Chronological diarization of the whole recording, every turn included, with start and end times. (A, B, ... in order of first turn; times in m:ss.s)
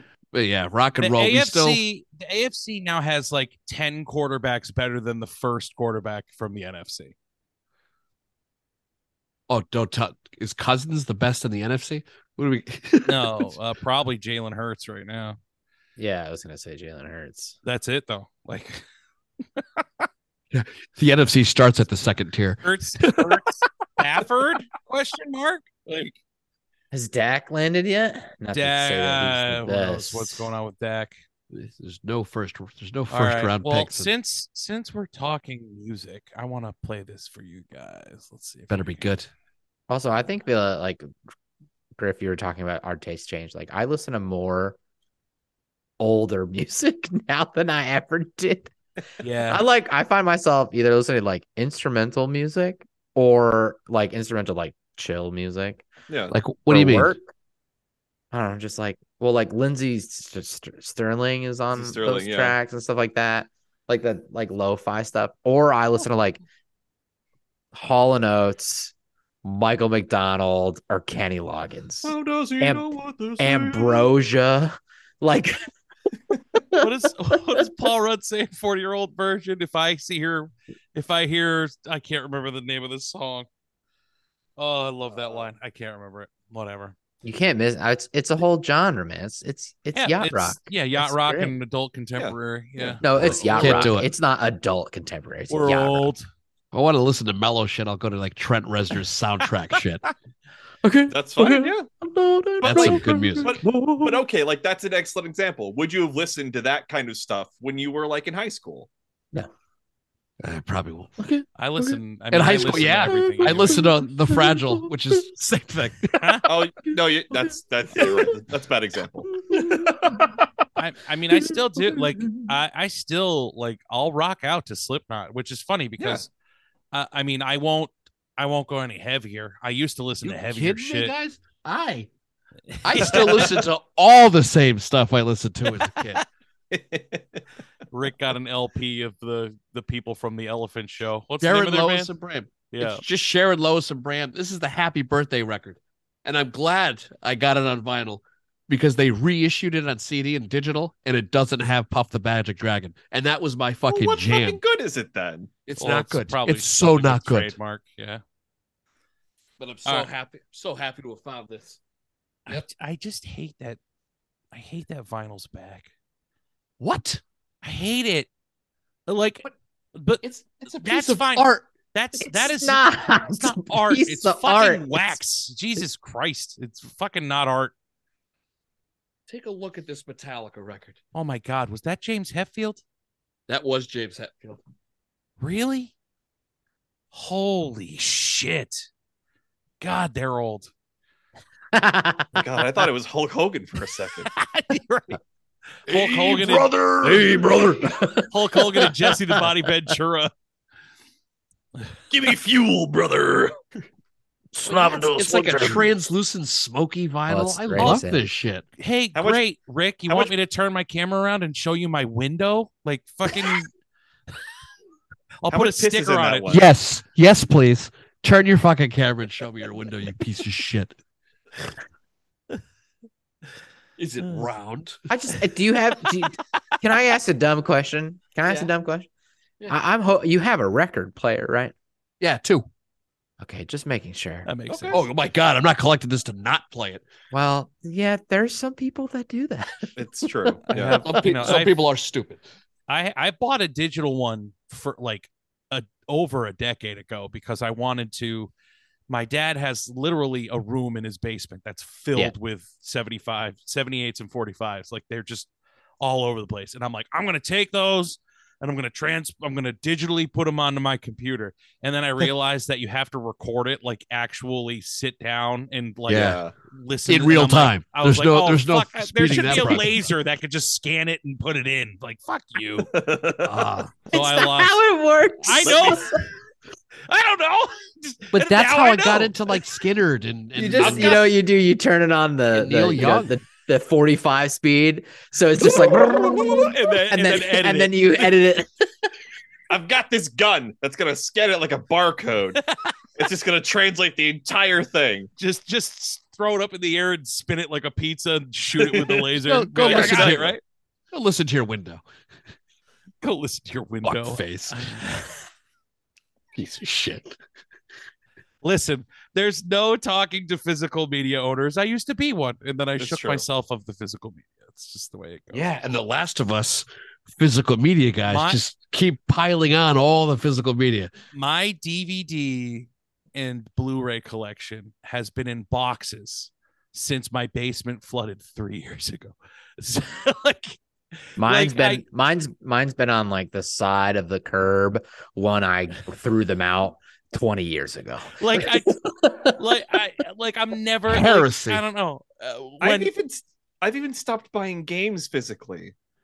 0:00.3-0:01.8 A
0:01.0-0:07.1 B
0:09.5-0:13.5 A
0:13.0-0:15.4 B
0:16.0-0:17.6 C
0:17.6-0:18.8 B
0:19.6-0:20.0 B
0:20.5-0:23.4 A
0:22.6-0:26.1 B
0:26.9-0:30.5 C
0:28.5-0:31.2 B
0:31.5-0:34.1 A
0:33.1-0:39.1 B
0:38.7-0:39.3 A
0:39.9-0:41.1 C
0:42.0-0:44.8 C
0:46.0-0:48.7 C
0:49.2-0:49.6 B
0:49.5-0:55.8 C
0:56.1-0:56.3 D
0:56.3-0:57.2 A
0:56.7-0:57.2 C
0:58.3-1:06.4 C
1:01.7-1:02.6 D
1:07.7-1:08.9 C
1:09.4-1:15.6 C
1:12.0-1:14.2 D
1:16.6-1:16.8 C
1:16.8-1:23.5 B
1:24.6-1:26.9 B
1:27.2-1:31.5 C
1:29.9-1:33.9 B
1:32.2-1:33.0 D
1:33.0-1:36.1 C
1:33.0-1:34.1 A
1:35.5-1:36.3 B
1:36.7-1:40.0 A
1:40.8-1:44.2 C
1:41.1-1:41.9 D
1:42.6-1:48.9 D
1:42.6-1:43.6 A
1:50.4-1:51.3 A
1:51.6-1:53.8 B
1:52.3-1:56.2 A
1:53.1-1:54.9 C
1:56.2-1:56.5 B
1:56.5-2:00.0 D
1:59.4-2:00.2 C
2:00.8-2:06.3 B
2:06.9-2:11.1 B
2:10.2-2:12.1 A
2:12.7-2:13.5 B
2:12.8-2:16.2 A
2:13.1-2:13.5 D
2:16.7-2:17.4 D
2:17.9-2:22.1 B
2:21.4-2:34.6 A
2:22.7-2:23.0 B
2:33.8-2:35.5 D
2:35.7-2:37.6 A
2:35.8-2:38.2 B
2:39.6-2:41.8 A
2:39.8-2:40.1 B
2:42.5-2:43.8 B
2:44.5-2:45.9 B
2:46.8-2:47.2 A
2:47.6-2:48.3 B
2:49.1-2:50.2 B
2:50.2-2:51.7 A
2:50.8-2:57.7 B
2:52.2-2:55.2 C
2:59.3-3:01.0 A
3:01.1-3:02.8 B
3:03.5-3:04.6 A
3:05.4-3:05.9 B
3:07.1-3:08.9 B
3:09.8-3:10.7 B
3:11.7-3:12.3 C
3:12.3-3:14.3 D
3:14.4-3:15.2 B
3:15.8-3:17.3 B
3:15.9-3:18.0 A
3:18.0-3:18.2 C
3:18.3-3:20.3 B
3:22.1-3:23.5 D
3:24.5-3:28.6 A
3:27.3-3:28.2 C
3:28.8-3:33.7 B
3:29.1-3:29.4 D
3:30.1-3:30.3 D
3:35.4-3:36.5 B
3:35.5-3:36.7 D
3:36.5-3:41.0 A
3:44.0-3:45.0 A
3:45.1-3:49.1 C
3:48.4-3:48.7 A
3:49.7-3:51.7 C
3:52.2-3:52.7 A
3:53.4-3:54.5 C
3:54.4-3:55.1 B
3:54.7-3:55.0 D
3:54.9-3:57.0 A
3:57.3-4:00.5 C
4:00.0-4:01.0 D
4:00.7-4:01.8 B
4:00.8-4:02.4 A
4:02.9-4:08.5 B
4:09.1-4:15.5 B
4:16.0-4:32.9 B
4:26.1-4:26.4 A
4:26.1-4:26.5 D
4:27.1-4:30.1 A
4:32.9-4:33.5 D
4:33.4-4:33.9 A
4:34.1-4:34.8 B
4:34.1-4:36.2 C
4:35.4-4:36.1 B
4:37.1-4:39.4 B
4:38.3-4:41.4 A
4:40.6-4:49.1 C
4:40.8-4:41.1 B
4:42.5-4:43.3 A
4:46.6-4:48.0 B
4:49.7-4:52.6 D
4:53.2-4:55.3 D
4:55.4-5:00.6 B
4:58.8-4:59.2 D
4:59.4-5:00.6 A
4:59.8-5:00.6 D
5:01.1-5:02.0 A
5:03.2-5:05.4 B
5:04.0-5:04.9 A
5:06.5-5:07.4 A
5:08.6-5:15.7 B
5:13.0-5:13.4 D
5:15.5-5:21.1 A
5:18.3-5:18.6 B
5:21.3-5:30.8 B
5:31.3-5:32.0 B
5:31.4-5:39.5 C
5:38.4-5:43.1 B
5:41.1-5:41.8 A
5:42.8-5:45.9 D